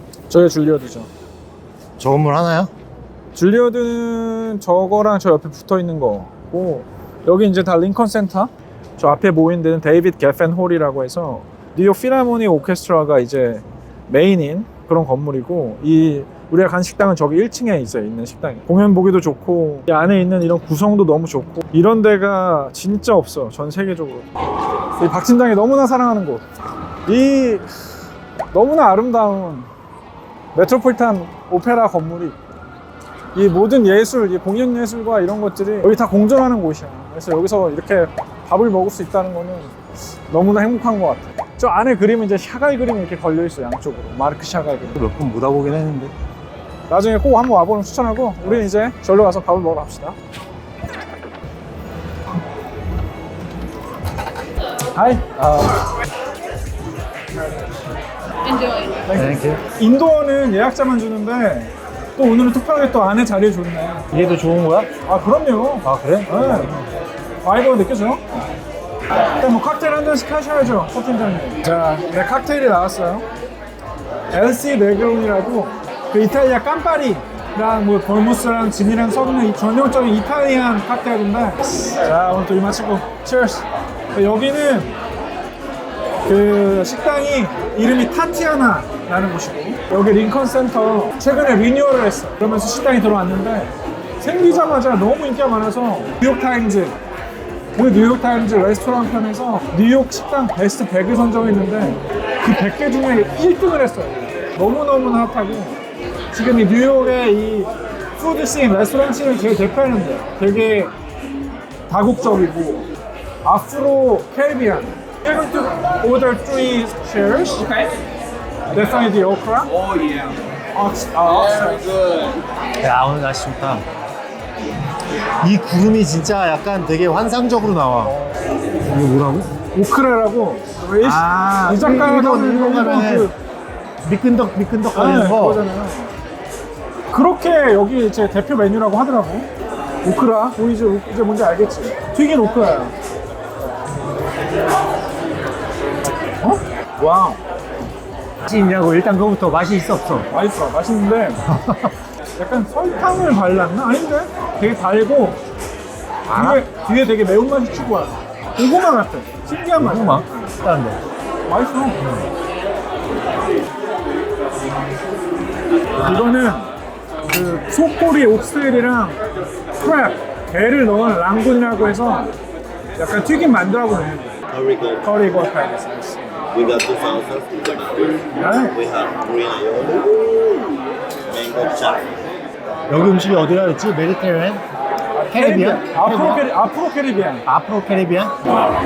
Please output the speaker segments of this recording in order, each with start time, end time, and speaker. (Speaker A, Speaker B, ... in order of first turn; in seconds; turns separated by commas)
Speaker A: 0.3-1.1, Speaker B: 2.0-2.7, Speaker A: 3.3-24.3, Speaker A: 25.0-26.4, Speaker A: 27.1-27.7, Speaker A: 28.5-29.7, Speaker A: 30.5-32.4, Speaker A: 33.3-39.7, Speaker A: 40.3-45.0, Speaker B: 45.0-46.1, Speaker A: 46.9-50.2, Speaker A: 54.9-55.7, Speaker A: 59.0-64.0, Speaker B: 59.1-59.6, Speaker B: 64.1-64.9, Speaker A: 65.0-66.7, Speaker B: 65.8-66.9, Speaker A: 67.4-68.2, Speaker A: 69.4-73.2, Speaker A: 74.3-85.0, Speaker A: 86.2-97.0, Speaker A: 97.8-105.8, Speaker A: 106.3-110.9, Speaker A: 111.9-112.9, Speaker A: 113.4-117.7, Speaker A: 118.7-119.7, Speaker A: 120.7-121.9, Speaker B: 122.8-123.8, Speaker B: 125.4-128.2, Speaker B: 128.8-129.5, Speaker A: 129.7-133.3, Speaker B: 131.0-133.3, Speaker B: 134.0-135.7, Speaker A: 134.9-136.1, Speaker A: 137.1-139.5, Speaker A: 140.0-142.9, Speaker A: 146.4-147.4, Speaker B: 148.4-150.2, Speaker A: 150.3-151.4, Speaker B: 151.4-151.9, Speaker A: 152.4-155.4, Speaker B: 156.3-156.6, Speaker A: 156.3-160.6, Speaker B: 159.8-161.0, Speaker A: 161.5-162.1, Speaker A: 166.0-166.7, Speaker A: 167.3-169.2, Speaker A: 169.7-172.3, Speaker A: 173.0-174.3, Speaker C: 174.6-174.9, Speaker A: 175.0-176.4, Speaker C: 176.6-178.1, Speaker A: 178.3-178.8, Speaker C: 178.9-180.0, Speaker C: 181.3-182.1, Speaker B: 182.9-184.6, Speaker A: 185.2-187.4, Speaker B: 185.2-186.4, Speaker B: 187.4-188.3